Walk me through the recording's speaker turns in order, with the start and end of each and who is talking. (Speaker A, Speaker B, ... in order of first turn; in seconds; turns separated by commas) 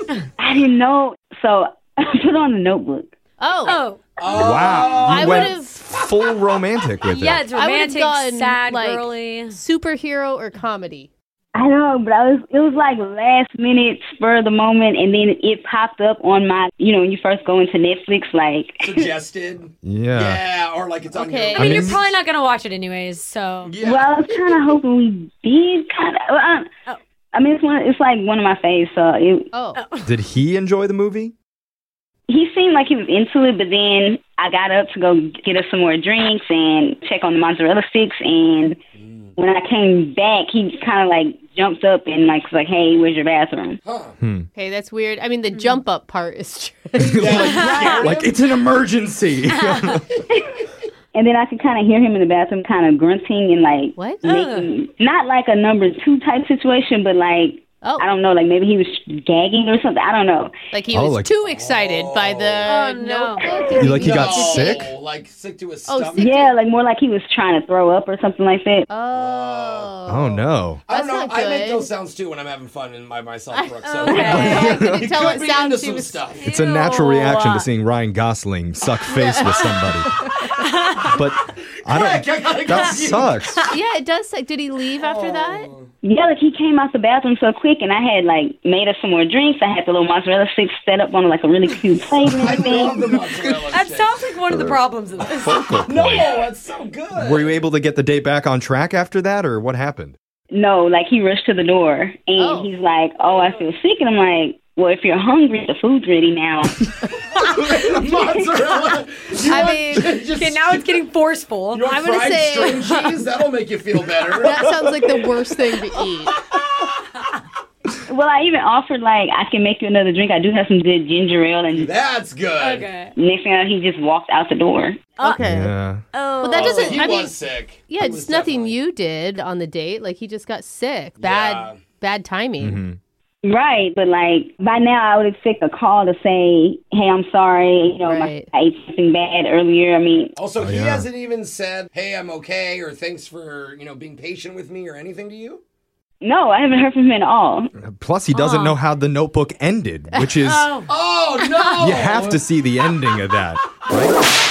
Speaker A: 0.4-3.1, Speaker B: 3.4-3.8, Speaker C: 3.6-4.1, Speaker D: 4.2-5.5, Speaker E: 4.3-7.5, Speaker B: 4.3-5.8, Speaker C: 7.0-9.6, Speaker B: 7.5-11.1, Speaker A: 11.5-19.1, Speaker D: 18.8-21.9, Speaker E: 19.8-20.4, Speaker B: 21.1-21.8, Speaker C: 21.5-23.8, Speaker E: 21.5-22.1, Speaker D: 23.6-24.7, Speaker A: 23.8-26.7, Speaker A: 27.3-29.5, Speaker B: 29.5-29.8, Speaker C: 29.8-30.1, Speaker E: 30.1-31.3, Speaker A: 32.3-38.8, Speaker D: 39.0-39.3, Speaker A: 39.4-43.8, Speaker D: 43.8-44.2, Speaker E: 44.2-44.5, Speaker B: 44.5-47.8, Speaker E: 47.0-50.1, Speaker D: 47.1-48.4, Speaker C: 47.4-48.0, Speaker A: 47.7-48.0, Speaker C: 49.5-50.0, Speaker A: 51.1-60.5, Speaker B: 54.0-54.2, Speaker C: 54.2-54.7, Speaker B: 60.7-64.9, Speaker E: 60.9-61.3, Speaker D: 61.5-62.7, Speaker C: 62.6-63.9, Speaker A: 63.4-63.9, Speaker E: 63.8-64.9, Speaker D: 63.9-66.4, Speaker B: 65.9-66.5, Speaker A: 66.2-68.9, Speaker B: 68.9-71.9, Speaker D: 69.1-70.1, Speaker E: 70.1-70.8, Speaker D: 70.8-76.5, Speaker B: 73.5-76.3, Speaker C: 73.8-74.8, Speaker E: 74.2-75.2, Speaker C: 76.4-77.7, Speaker E: 76.5-80.2, Speaker C: 79.1-79.7, Speaker C: 80.4-81.2, Speaker E: 81.1-83.7, Speaker D: 81.8-83.3, Speaker B: 83.7-85.7, Speaker D: 85.0-85.9, Speaker A: 86.0-93.1, Speaker D: 92.4-94.2, Speaker E: 93.3-93.6, Speaker C: 93.7-95.6, Speaker E: 94.5-96.3, Speaker D: 95.8-97.6, Speaker E: 97.1-100.1, Speaker A: 100.5-106.8, Speaker B: 102.4-102.7, Speaker D: 107.3-111.0, Speaker A: 107.8-108.9, Speaker B: 109.5-110.1, Speaker C: 110.2-111.9, Speaker D: 111.7-115.3, Speaker B: 111.9-113.1, Speaker B: 114.3-116.3, Speaker A: 118.1-121.9, Speaker D: 121.7-122.9, Speaker C: 122.6-123.1, Speaker A: 123.1-125.0, Speaker C: 125.2-125.4, Speaker B: 125.2-125.7, Speaker E: 125.4-126.0, Speaker C: 126.1-127.1, Speaker B: 126.4-127.3, Speaker D: 126.5-128.7, Speaker B: 127.9-132.8, Speaker D: 131.2-131.8, Speaker E: 132.6-133.0, Speaker A: 133.4-140.3, Speaker B: 138.1-138.5, Speaker D: 140.3-145.6, Speaker E: 140.6-141.1, Speaker A: 146.2-147.7, Speaker E: 147.8-150.7, Speaker C: 148.3-148.8, Speaker C: 150.4-151.9, Speaker D: 150.9-152.4, Speaker E: 151.8-154.2